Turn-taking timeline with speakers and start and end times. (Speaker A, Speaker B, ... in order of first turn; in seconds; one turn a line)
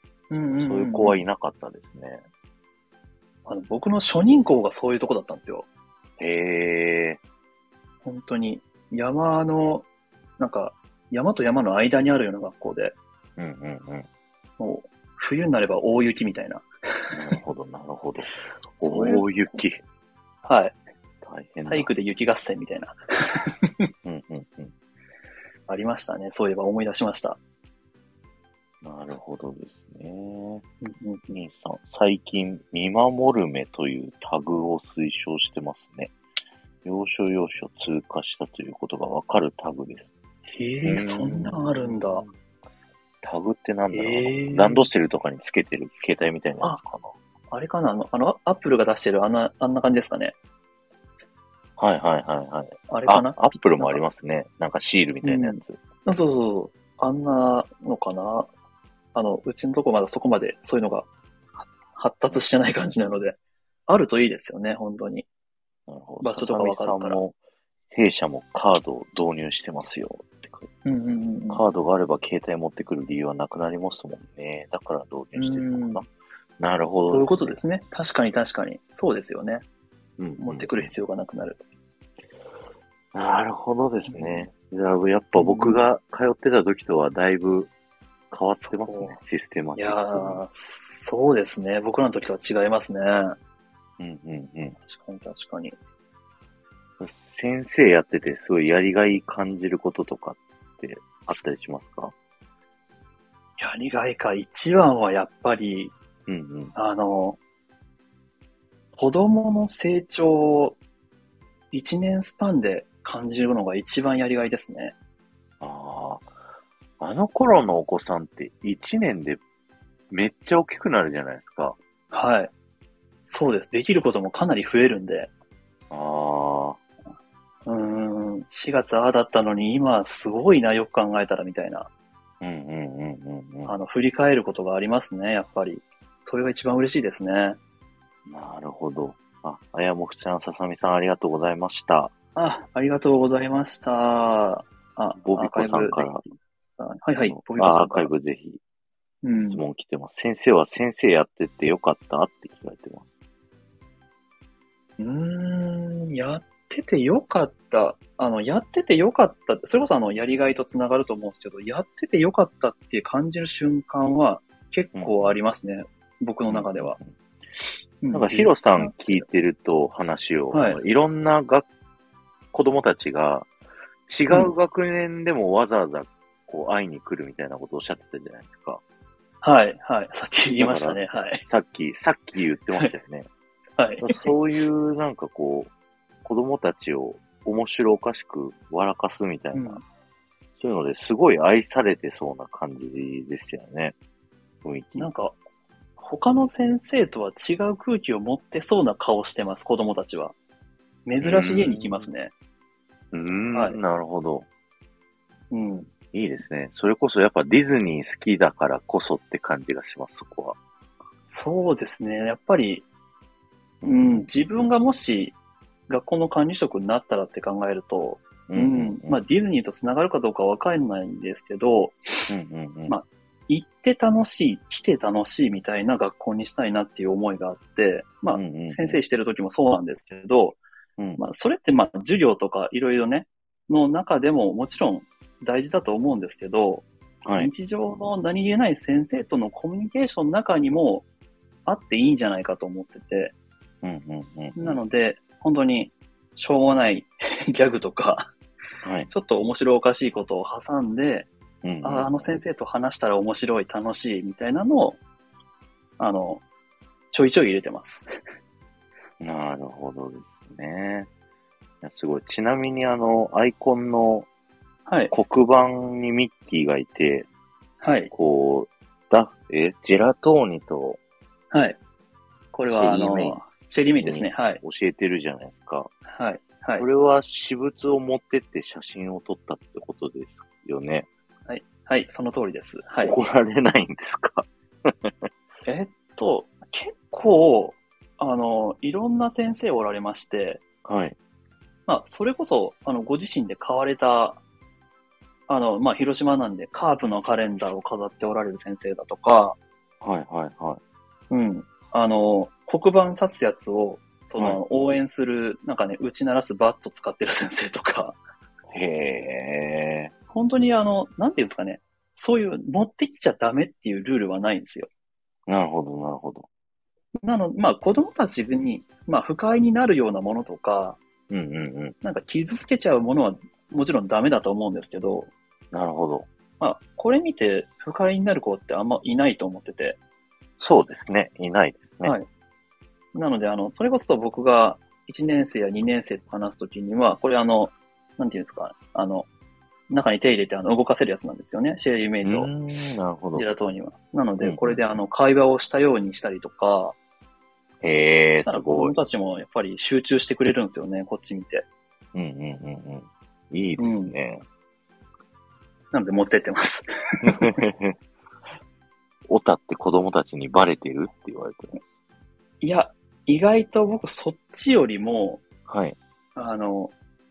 Speaker A: 0.3-1.2
Speaker B: 0.6-2.2
Speaker A: 3.5-5.7
Speaker B: 6.2-7.2
Speaker A: 8.0-9.9
Speaker A: 10.4-12.9
Speaker B: 13.4-14.1
Speaker A: 14.6-17.4
Speaker B: 17.1-19.8
Speaker A: 18.8-19.2
Speaker A: 20.4-20.8
Speaker B: 21.2-21.9
Speaker A: 21.7-23.9
Speaker B: 24.0-24.7
Speaker A: 25.7-27.4
Speaker B: 28.8-30.7
Speaker A: 30.8-31.3
Speaker B: 31.3-36.1
Speaker B: 36.8-40.1
Speaker A: 40.5-42.2
Speaker B: 40.9-42.3
Speaker B: 43.2-47.1
Speaker A: 43.9-44.9
Speaker A: 47.5-50.3
Speaker B: 51.8-55.8
Speaker A: 52.9-54.0
Speaker A: 55.2-58.5
Speaker A: 59.1-61.1
Speaker A: 61.6-65.3
Speaker B: 65.9-67.4
Speaker A: 66.2-67.2
Speaker B: 67.9-70.7
Speaker A: 70.8-71.6
Speaker B: 71.5-77.6
Speaker A: 75.4-76.0
Speaker A: 77.1-79.6
Speaker B: 80.2-80.9
Speaker A: 80.4-81.6
Speaker B: 83.1-87.7
Speaker A: 84.1-84.5
Speaker A: 85.4-85.8
Speaker B: 88.3-90.4
Speaker A: 88.5-89.2
Speaker A: 89.8-93.3
Speaker B: 94.0-94.8
Speaker A: 94.8-95.8
Speaker B: 97.0-102.1
Speaker A: 103.6-105.9
Speaker B: 106.3-106.7
Speaker A: 106.8-107.4
Speaker A: 109.0-110.8
Speaker A: 111.7-115.0
Speaker B: 115.6-116.3
Speaker B: 117.0-119.4
Speaker B: 120.1-121.8
Speaker A: 122.1-122.5
Speaker A: 123.3-125.3
Speaker B: 125.9-126.8
Speaker A: 127.7-131.9
Speaker B: 132.4-133.7
Speaker A: 133.7-137.6
Speaker B: 138.3-142.1
Speaker A: 142.3-148.1
Speaker B: 145.2-146.2
Speaker B: 147.2-148.6
Speaker A: 149.2-149.6
Speaker B: 149.5-153.1
Speaker A: 155.0-167.0
Speaker B: 164.9-165.4
Speaker B: 166.5-167.2
Speaker A: 168.0-169.2
Speaker B: 168.1-171.7
Speaker A: 170.5-170.8
Speaker B: 172.5-173.5
Speaker B: 174.1-178.8
Speaker A: 179.4-181.4
Speaker B: 180.6-183.3
Speaker A: 183.8-184.3
Speaker B: 184.0-185.7
Speaker B: 186.2-189.8
Speaker A: 189.5-189.8
Speaker B: 190.6-193.9
Speaker B: 194.6-195.1
Speaker A: 195.0-195.4
Speaker A: 196.0-200.3
Speaker A: 201.1-202.3
Speaker B: 201.2-202.1
Speaker B: 203.1-204.5
Speaker A: 205.5-205.9
Speaker B: 206.1-210.6
Speaker A: 211.3-212.9
Speaker B: 213.8-214.3
Speaker A: 213.8-215.4
Speaker A: 215.9-222.3
Speaker B: 218.5-219.2
Speaker B: 222.3-223.0
Speaker A: 222.9-230.6
Speaker B: 228.3-229.0
Speaker A: 231.2-241.1
Speaker B: 237.2-237.5
Speaker A: 241.7-243.3
Speaker B: 243.8-244.8
Speaker A: 244.6-248.3
Speaker B: 248.8-249.1
Speaker A: 249.1-251.3
Speaker B: 251.6-252.3
Speaker A: 251.8-255.0
Speaker A: 256.0-256.4
Speaker A: 257.1-258.1
Speaker B: 259.2-261.1
Speaker B: 261.8-264.3
Speaker A: 264.9-265.1
Speaker B: 265.1-267.3
Speaker A: 267.8-268.1
Speaker B: 268.1-271.0
Speaker A: 271.5-271.8
Speaker A: 272.5-274.6
Speaker B: 272.7-273.4
Speaker B: 274.0-275.9
Speaker A: 276.1-276.9
Speaker B: 276.8-281.1
Speaker A: 281.5-283.2
Speaker B: 283.0-285.3
Speaker A: 285.7-290.6
Speaker B: 290.8-291.2
Speaker A: 291.9-294.4
Speaker A: 295.5-299.6
Speaker B: 300.0-300.8
Speaker A: 301.3-308.2
Speaker B: 308.7-310.1
Speaker A: 310.3-314.9
Speaker B: 315.5-316.5
Speaker A: 317.2-321.0
Speaker B: 321.3-322.0
Speaker A: 322.0-325.3
Speaker B: 325.7-326.3
Speaker A: 326.6-330.0
Speaker B: 330.6-332.2
Speaker A: 333.1-339.3
Speaker A: 339.9-342.5
Speaker B: 342.2-343.5
Speaker A: 343.4-347.0
Speaker B: 344.4-344.8
Speaker B: 347.8-348.9
Speaker A: 348.4-351.6
Speaker B: 352.1-354.4
Speaker A: 353.8-354.1
Speaker A: 355.9-357.6
Speaker B: 357.2-357.9
Speaker B: 359.3-361.8
Speaker A: 362.6-365.4
Speaker B: 365.7-366.0
Speaker A: 366.4-366.9